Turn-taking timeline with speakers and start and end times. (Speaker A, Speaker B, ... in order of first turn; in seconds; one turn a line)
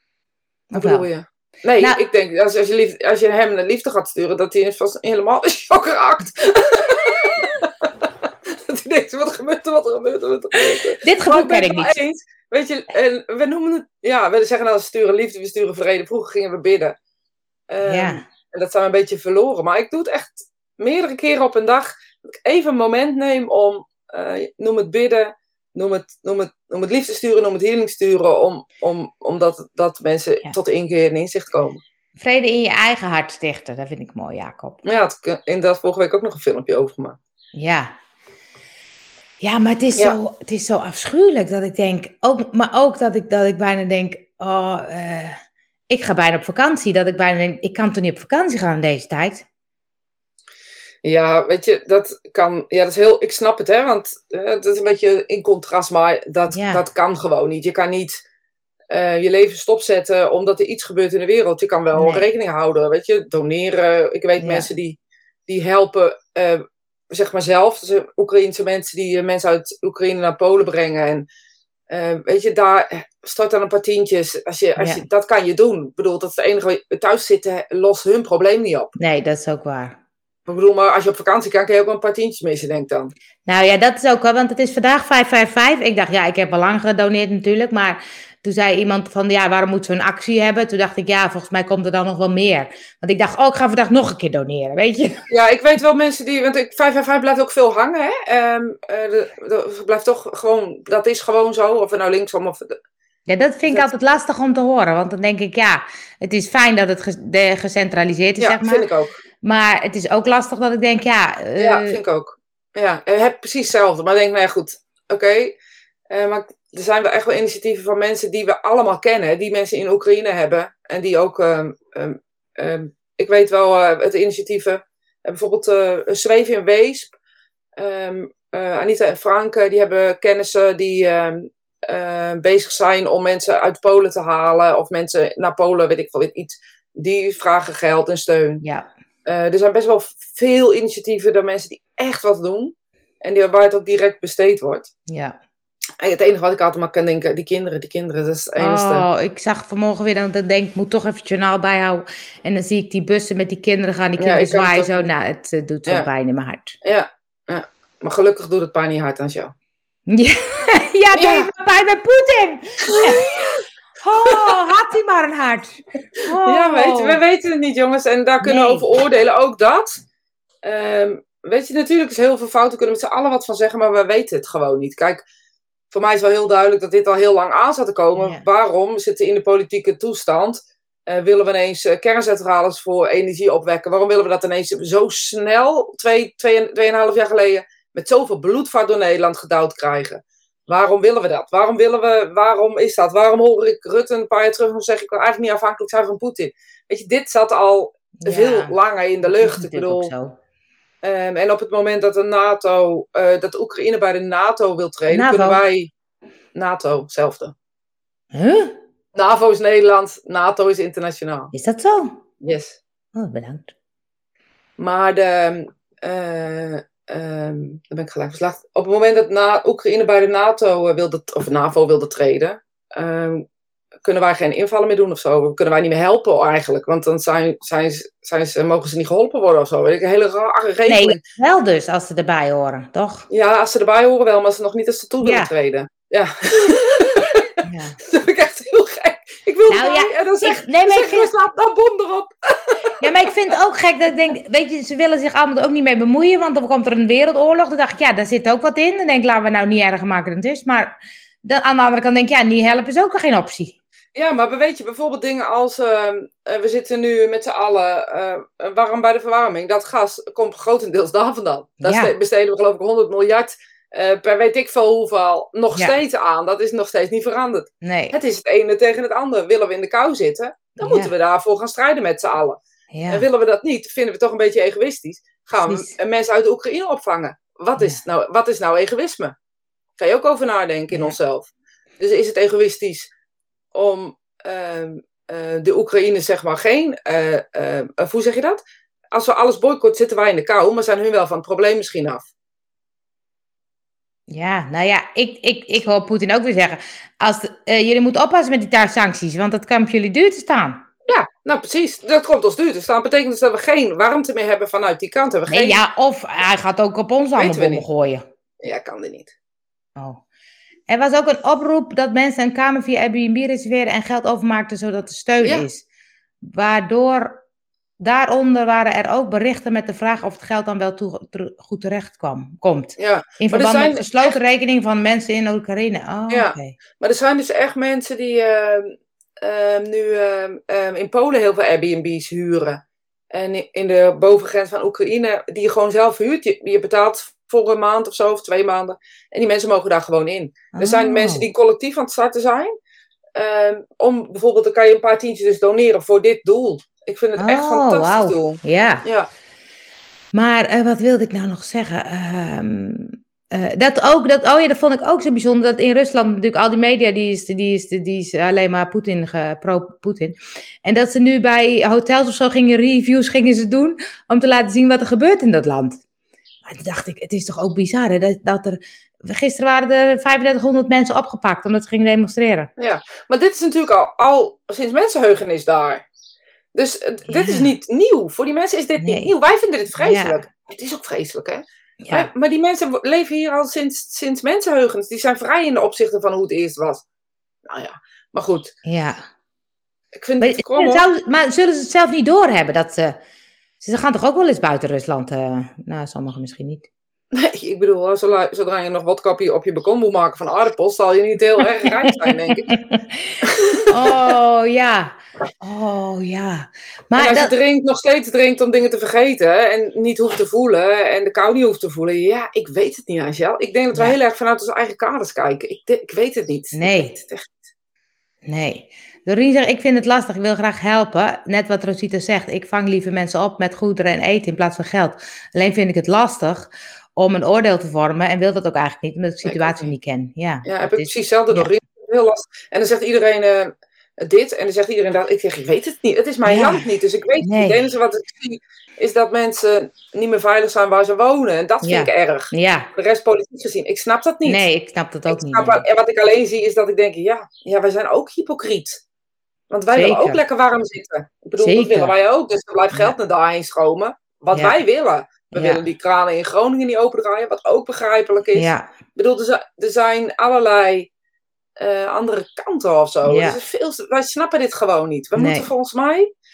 Speaker A: 0.7-1.1
Speaker B: 0.8-17.0
Speaker A: 10.8-12.0
Speaker B: 17.7-31.8
Speaker A: 17.8-18.2
Speaker A: 32.2-34.8
Speaker B: 34.8-37.2
Speaker A: 37.5-37.9
Speaker A: 39.4-49.5
Speaker B: 51.0-58.2
Speaker A: 56.5-56.8
Speaker B: 58.9-71.3
Speaker A: 62.0-62.2
Speaker A: 64.4-64.7
Speaker B: 71.9-78.9
Speaker A: 74.8-75.0
Speaker A: 79.0-80.0
Speaker B: 80.5-83.1
Speaker A: 83.5-95.2
Speaker B: 95.3-102.8
Speaker A: 103.3-108.8
Speaker B: 108.4-109.2
Speaker A: 109.4-112.0
Speaker B: 111.6-115.6
Speaker B: 116.1-127.1
Speaker B: 127.8-138.6
Speaker A: 138.6-138.9
Speaker B: 139.3-144.9
Speaker A: 145.1-145.4
Speaker B: 146.0-149.1
Speaker A: 148.6-156.8
Speaker B: 154.2-155.1
Speaker B: 156.8-159.5
Speaker A: 160.1-163.5
Speaker B: 161.1-161.5
Speaker B: 162.8-163.7
Speaker A: 164.0-167.2
Speaker B: 164.2-164.6
Speaker B: 166.2-170.0
Speaker A: 168.4-168.8
Speaker B: 170.6-175.2
Speaker B: 175.9-200.1
Speaker A: 178.2-178.4
Speaker A: 198.2-200.4
Speaker B: 201.0-205.9
Speaker A: 205.1-205.6
Speaker B: 206.6-207.5
Speaker A: 208.3-208.8
Speaker B: 209.2-211.5
Speaker A: 211.5-212.2
Speaker B: 212.4-212.8
Speaker A: 213.2-213.7
Speaker B: 214.8-223.4
Speaker B: 224.0-231.2
Speaker A: 230.9-233.3
Speaker B: 233.3-243.1
Speaker A: 235.2-235.5
Speaker A: 237.6-238.0
Speaker A: 239.7-241.3
Speaker A: 243.0-253.8
Speaker B: 254.2-279.4
Speaker A: 261.8-262.1
Speaker A: 267.8-268.1
Speaker A: 270.8-271.1
Speaker A: 272.9-273.3
Speaker B: 280.0-283.1
Speaker A: 280.9-281.2
Speaker B: 283.7-288.6
Speaker B: 289.1-292.3
Speaker A: 294.3-300.8
Speaker B: 301.1-305.8
Speaker A: 305.5-308.2
Speaker B: 307.4-307.8
Speaker B: 308.6-309.3
Speaker A: 310.0-310.2
Speaker A: 310.9-315.9
Speaker B: 315.4-315.7
Speaker A: 316.4-317.4
Speaker A: 318.0-326.8
Speaker B: 323.0-324.3
Speaker B: 326.3-342.7
Speaker A: 340.7-341.5
Speaker B: 343.4-349.3
Speaker A: 347.4-349.0
Speaker A: 350.3-366.0
Speaker A: 366.6-372.7
Speaker B: 372.8-376.0
Speaker B: 376.8-387.0
Speaker A: 377.3-377.7
Speaker A: 379.0-379.3
Speaker A: 380.0-380.4
Speaker A: 382.0-382.3
Speaker B: 387.7-388.7
Speaker A: 388.9-389.2
Speaker B: 390.2-391.1
Speaker A: 390.4-393.2
Speaker A: 393.8-396.9
Speaker B: 397.3-402.7
Speaker A: 402.0-403.4
Speaker B: 403.4-404.1
Speaker A: 403.9-407.5
Speaker B: 407.2-417.7
Speaker A: 416.7-417.2
Speaker A: 418.4-431.7
Speaker B: 429.4-429.9
Speaker B: 430.6-444.7
Speaker A: 436.5-436.9
Speaker A: 437.4-437.8
Speaker A: 441.8-442.9
Speaker A: 444.5-445.8
Speaker B: 445.3-449.0
Speaker B: 449.7-461.1
Speaker A: 449.9-450.4
Speaker A: 451.6-452.1
Speaker A: 455.5-455.8
Speaker A: 458.6-458.9
Speaker B: 461.8-466.3
Speaker A: 463.3-463.6
Speaker A: 465.4-465.7